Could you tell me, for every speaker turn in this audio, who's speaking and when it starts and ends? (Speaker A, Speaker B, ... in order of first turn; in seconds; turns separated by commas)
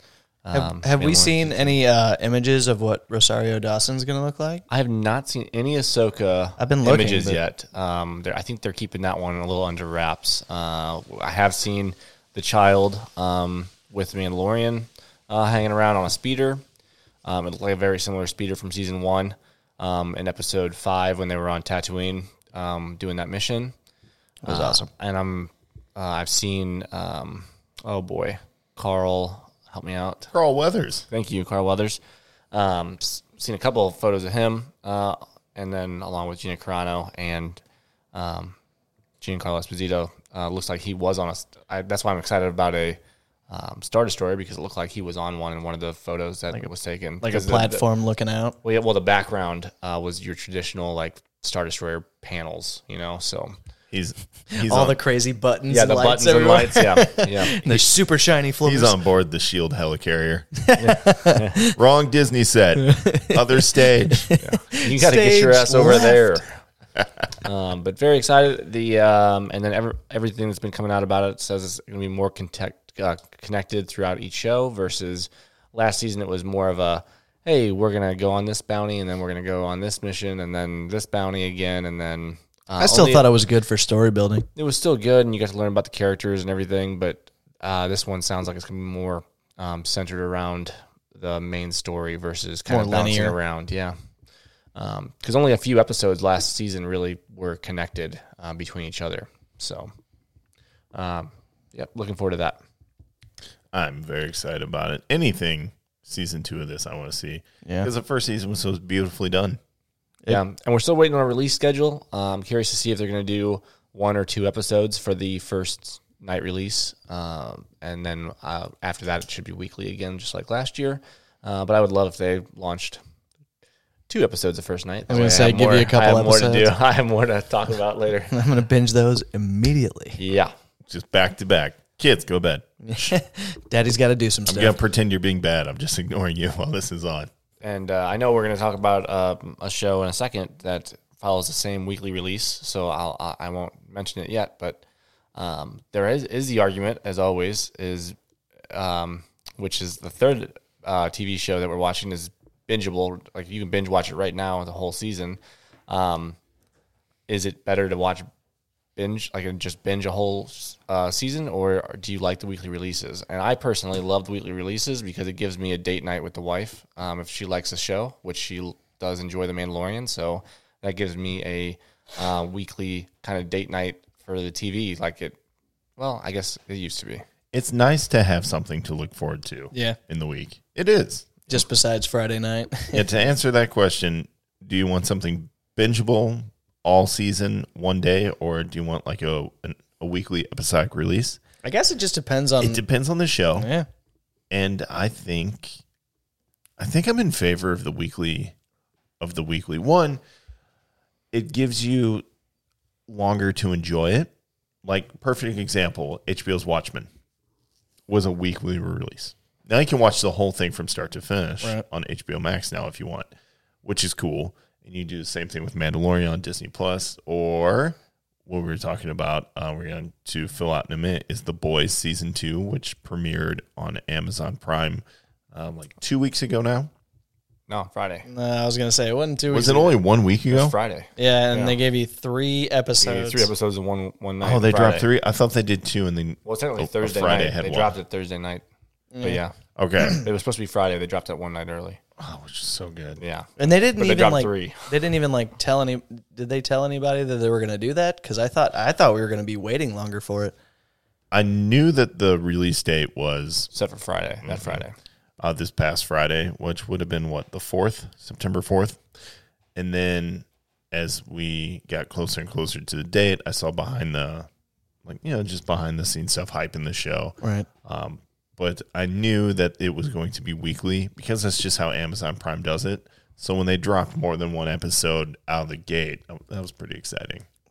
Speaker A: 0.4-1.7, Speaker B: 0.5-4.6, Speaker A: 4.7-16.6, Speaker B: 6.6-7.4, Speaker A: 17.2-23.7, Speaker B: 24.4-24.9, Speaker A: 24.4-30.3, Speaker C: 30.3-31.1, Speaker A: 31.1-32.0, Speaker A: 32.5-37.6, Speaker A: 38.1-38.5, Speaker A: 39.2-47.8, Speaker B: 47.2-48.5, Speaker A: 48.6-53.5, Speaker C: 53.9-55.0, Speaker B: 54.6-59.0, Speaker A: 55.7-57.7, Speaker C: 58.6-60.5, Speaker B: 60.6-61.7, Speaker A: 60.8-61.6, Speaker C: 61.7-64.3, Speaker B: 62.8-66.4, Speaker A: 64.4-66.5, Speaker A: 67.4-83.3, Speaker B: 82.8-84.5, Speaker A: 84.6-93.9, Speaker B: 92.7-93.3, Speaker A: 94.7-99.9, Speaker A: 100.9-102.6, Speaker C: 103.7-109.6, Speaker B: 107.6-107.9, Speaker A: 110.3-123.0, Speaker A: 124.1-128.3, Speaker B: 125.1-126.7, Speaker B: 128.3-130.2, Speaker A: 130.2-130.5, Speaker C: 130.9-133.1, Speaker B: 132.8-134.8, Speaker C: 134.4-137.3, Speaker A: 137.6-144.8, Speaker A: 145.4-148.1, Speaker A: 148.7-156.4, Speaker A: 157.3-158.3, Speaker A: 158.9-175.4, Speaker A: 176.0-177.2, Speaker C: 177.5-181.6, Speaker B: 181.5-183.1, Speaker C: 182.9-191.4, Speaker B: 191.6-192.8, Speaker C: 192.6-193.7, Speaker B: 193.6-193.9, Speaker C: 194.5-195.8, Speaker C: 196.8-198.5, Speaker C: 199.2-200.2, Speaker C: 201.3-202.2, Speaker C: 203.1-204.3, Speaker C: 204.8-207.1, Speaker C: 208.1-213.3, Speaker C: 213.8-226.9, Speaker A: 227.7-228.2, Speaker B: 228.2-229.9, Speaker C: 229.5-230.7, Speaker A: 230.5-231.8, Speaker B: 231.2-233.5, Speaker A: 233.0-235.1, Speaker C: 234.4-237.9, Speaker A: 236.4-238.6, Speaker B: 239.1-239.4, Speaker A: 239.2-239.6, Speaker C: 239.8-240.2, Speaker A: 240.1-242.0, Speaker C: 242.2-243.2, Speaker A: 243.2-244.9, Speaker B: 243.6-250.6, Speaker C: 251.3-253.7, Speaker A: 253.7-254.9, Speaker C: 254.4-254.8, Speaker C: 255.4-259.0, Speaker C: 259.7-264.5, Speaker C: 265.0-277.4, Speaker B: 267.4-267.7